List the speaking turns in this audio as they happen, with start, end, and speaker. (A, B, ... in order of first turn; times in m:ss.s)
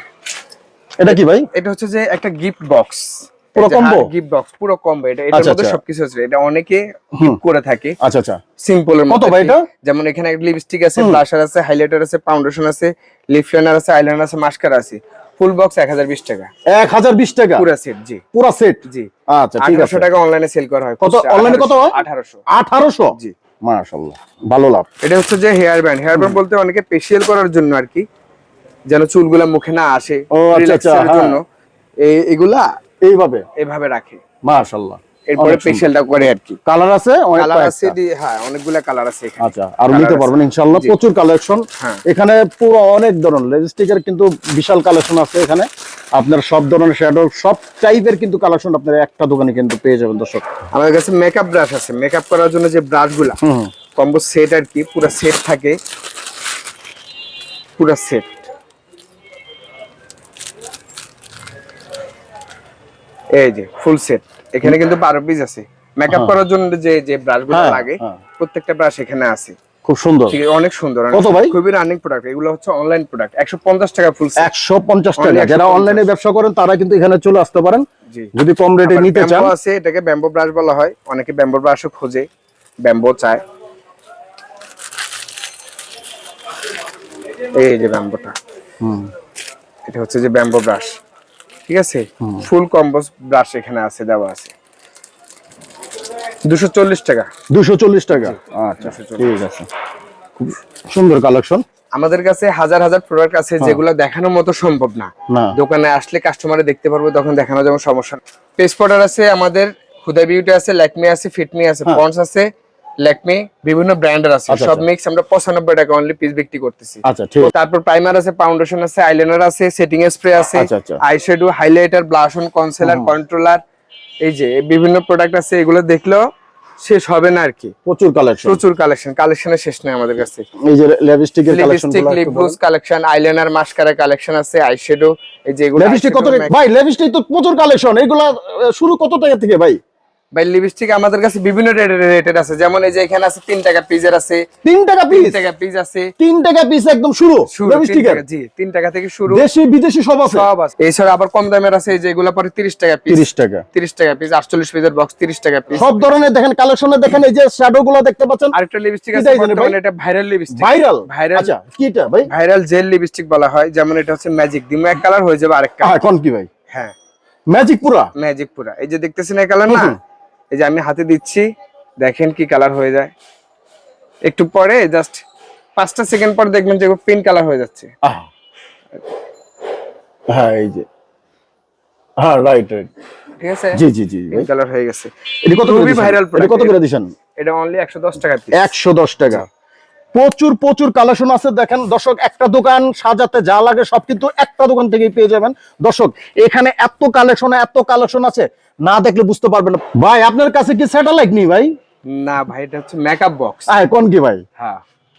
0:01.0-0:01.5 A
0:01.1-0:08.0 B
0:03.6-0:04.1 A
0:05.3-0:05.8 A
0:07.2-0:07.4 A
0:08.0-0:08.4 A
0:08.6-0:16.5 B
0:09.1-0:09.6 A
0:11.0-0:11.2 A
0:16.7-0:17.7 A
0:17.6-0:18.2 B
0:18.3-0:20.1 A
0:19.6-0:22.4 B
0:21.0-0:21.9 A
0:22.5-0:24.9 A
0:25.0-0:28.0 B
0:26.2-0:26.4 A
0:28.9-0:31.4 B
0:30.4-0:31.4 A
0:32.0-0:32.7 B
0:33.1-0:33.4 A
0:33.6-0:34.2 B
0:34.4-0:38.0 A
0:35.3-0:36.6 B
0:37.4-0:41.0 B
0:39.4-0:50.4 A
0:50.7-0:53.4 B
0:53.4-0:53.7 A
0:54.0-0:55.8 B
0:57.8-0:58.4 B
1:03.3-1:09.6 B
1:06.1-1:06.4 A
1:07.5-1:08.2 A
1:09.8-1:10.4 A
1:10.3-1:14.5 B
1:11.1-1:11.6 A
1:14.4-1:19.5 A
1:15.2-1:16.1 B
1:18.1-1:22.3 B
1:22.8-1:23.4 B
1:27.5-1:28.4 B
1:28.8-1:29.1 A
1:29.9-1:31.0 B
1:31.7-1:34.5 B
1:36.4-1:37.3 B
1:37.5-1:39.7 A
1:38.1-1:39.4 B
1:40.4-1:41.6 A
1:42.0-1:52.5 B
1:45.3-1:45.6 A
1:53.0-2:03.6 B
1:54.5-1:54.8 A
1:57.0-1:57.5 A
2:00.6-2:01.0 A
2:02.8-2:03.1 A
2:04.2-2:06.2 B
2:06.8-2:07.8 B
2:07.9-2:08.6 A
2:08.4-2:10.5 B
2:10.6-2:12.6 A
2:11.5-2:16.5 B
2:15.8-2:19.8 A
2:20.4-2:24.5 B
2:24.6-2:25.4 A
2:25.1-2:26.1 B
2:26.2-2:28.2 A
2:27.5-2:29.5 B
2:29.3-2:30.5 A
2:30.2-2:36.2 B
2:33.1-2:33.6 A
2:35.7-2:38.5 A
2:38.5-2:41.5 B
2:39.1-2:39.8 A
2:40.5-2:42.3 A
2:42.2-2:46.0 B
2:45.8-2:46.5 A
2:47.5-2:48.1 A
2:48.2-2:50.0 B
2:49.7-2:50.0 A
2:50.5-2:51.4 B
2:52.0-2:53.1 B
2:54.3-2:55.2 B
2:55.8-2:57.9 B
2:58.0-2:58.3 A
3:00.3-3:00.9 A
3:02.2-3:02.9 A
3:03.4-3:06.8 B
3:03.8-3:04.5 A
3:05.4-3:07.1 A
3:07.4-3:08.7 B
3:08.6-3:09.5 A
3:10.1-3:21.7 A
3:22.1-3:23.7 B
3:23.7-3:24.4 A